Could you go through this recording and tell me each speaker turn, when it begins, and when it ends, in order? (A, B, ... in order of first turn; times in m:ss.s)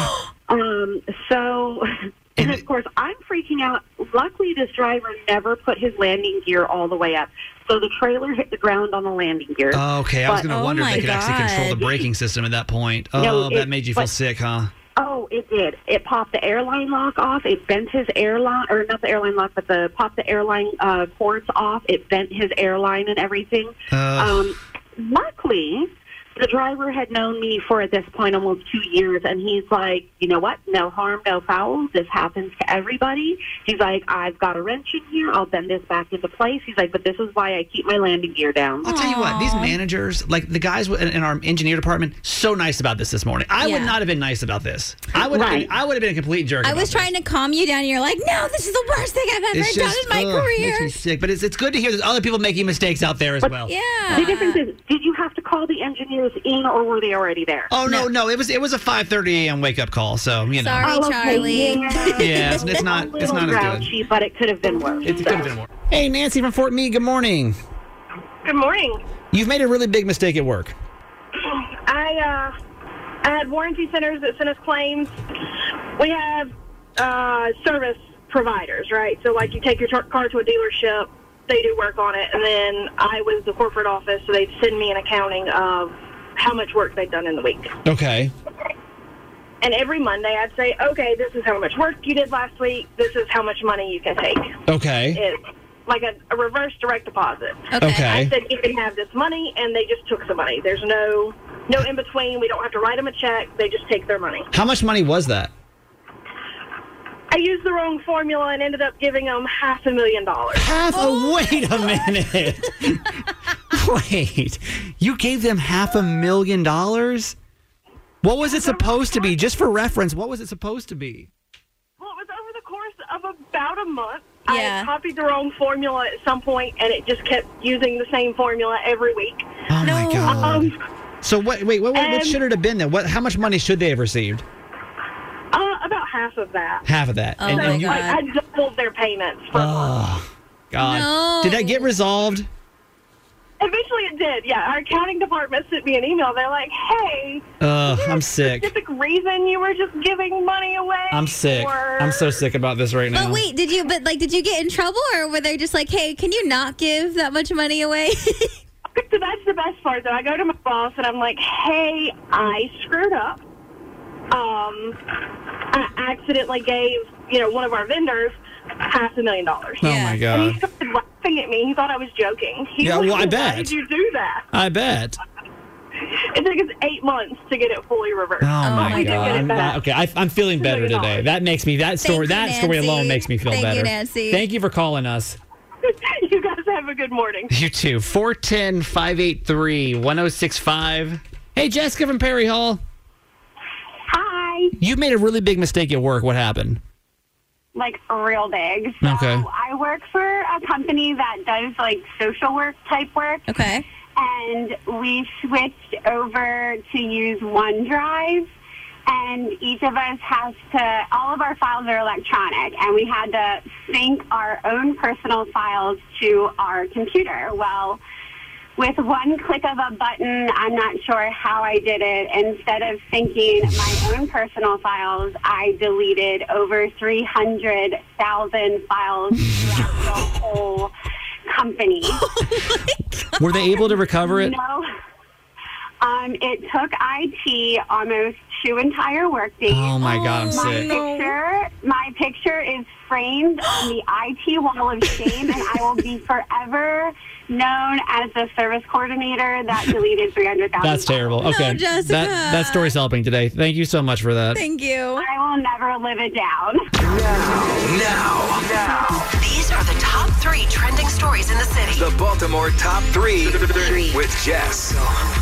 0:00.5-0:10.4 A
0:02.4-0:02.6 B
0:09.7-0:14.7 B
0:10.5-0:12.0 C
0:13.2-0:14.1 A
0:15.0-0:38.9 A
0:23.9-0:24.4 B
0:38.8-0:47.1 B
0:38.8-0:39.8 C
0:43.6-0:44.0 C
0:45.2-0:45.7 A
0:46.6-0:50.9 C
0:49.5-0:53.7 B
0:53.6-0:54.6 C
0:54.1-0:57.7 A
0:57.7-1:01.0 B
1:00.6-1:02.8 C
1:00.8-1:05.6 A
1:02.1-1:03.9 B
1:05.0-1:07.6 B
1:08.4-1:09.0 D
1:09.3-1:10.7 B
1:11.8-1:12.5 D
1:13.2-1:15.1 D
1:16.0-1:27.7 D
1:27.8-1:28.3 B
1:29.6-1:34.5 D
1:34.7-1:35.2 B
1:35.1-1:44.5 D
1:37.7-1:38.1 C
1:37.8-1:38.3 B
1:44.5-1:45.5 B
1:47.3-1:50.7 D
1:50.5-1:53.2 B
1:53.7-1:57.3 B
1:58.2-2:01.3 B
1:58.4-1:59.4 D
2:02.0-2:09.4 D
2:04.5-2:04.9 C
2:09.7-2:14.4 B
2:09.8-2:10.7 C
2:10.3-2:10.7 D
2:11.9-2:12.4 D
2:15.5-2:16.8 D
2:16.8-2:18.1 B
2:17.4-2:18.2 C
2:17.5-2:20.0 D
2:19.5-2:22.5 B
2:20.8-2:21.9 C
2:23.6-2:32.3 D
2:27.6-2:28.7 B
2:31.1-2:33.4 B
2:33.1-2:38.5 C
2:39.0-2:43.4 D
2:44.3-2:45.0 D
2:45.7-2:49.8 D
2:49.8-2:50.6 B
2:49.8-2:50.2 C
2:50.3-2:54.4 D
2:52.8-2:53.7 B
2:54.5-2:55.2 B
2:56.3-2:59.8 D
2:58.4-3:05.4 B
2:58.6-2:59.7 C
3:00.6-3:01.2 D
3:02.0-3:04.4 C
3:06.1-3:07.5 D
3:07.5-3:12.8 B
3:14.1-3:14.7 E
3:14.8-3:16.8 B
3:17.7-3:23.5 E
3:19.0-3:19.5 B
3:23.5-3:23.8 C
3:24.2-3:28.5 E
3:29.1-3:38.0 E
3:38.8-3:50.9 E
3:51.5-3:52.2 E
3:52.4-3:52.9 C
3:53.1-3:54.5 B
3:54.2-3:54.9 E
3:56.0-4:11.5 E
3:59.7-4:00.9 B
4:00.0-4:01.4 C
4:05.3-4:05.5 C
4:10.8-4:14.6 B
4:11.4-4:12.9 C
4:14.5-4:15.2 C
4:15.2-4:16.9 E
4:17.0-4:19.2 F
4:19.4-4:22.1 G
4:21.9-4:25.1 F